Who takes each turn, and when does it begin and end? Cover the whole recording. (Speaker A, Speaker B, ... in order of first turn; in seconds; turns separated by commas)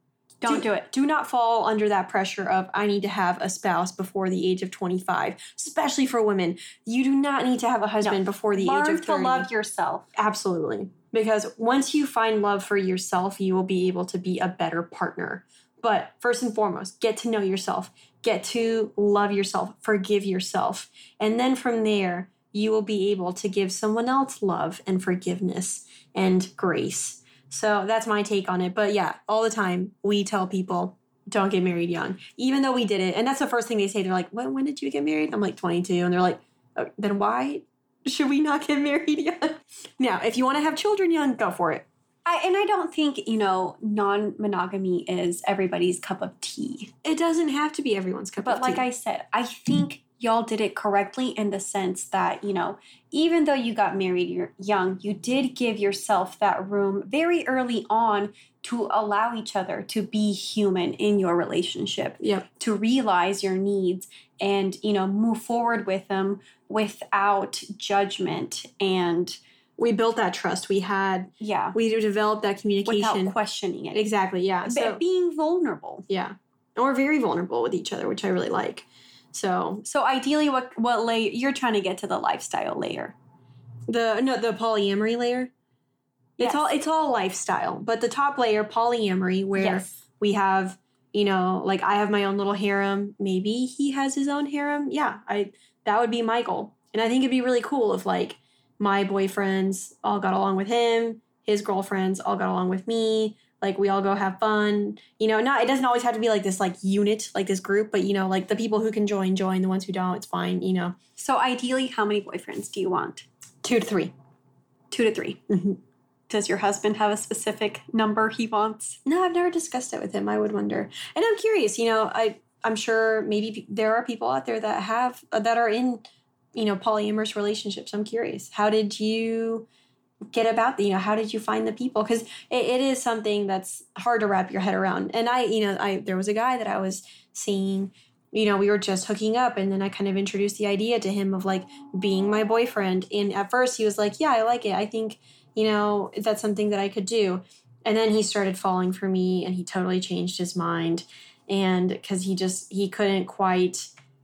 Speaker A: 0.4-0.9, Speaker B: 0.5-9.5, Speaker A: 8.0-10.1, Speaker B: 10.1-41.9, Speaker A: 42.2-46.9, Speaker B: 47.0-48.8, Speaker A: 48.4-69.4, Speaker B: 62.2-62.5, Speaker B: 69.8-73.3, Speaker A: 71.4-71.8, Speaker A: 72.8-74.0, Speaker B: 73.9-75.0, Speaker A: 74.6-76.0, Speaker B: 76.1-79.8, Speaker A: 79.8-83.1, Speaker B: 83.9-85.5, Speaker A: 86.4-86.7, Speaker B: 86.4-111.0, Speaker A: 89.5-90.0, Speaker A: 111.2-113.2, Speaker B: 113.6-114.1, Speaker A: 114.9-115.5, Speaker B: 115.5-115.8, Speaker A: 116.3-119.0, Speaker B: 119.0-129.7, Speaker B: 130.3-153.9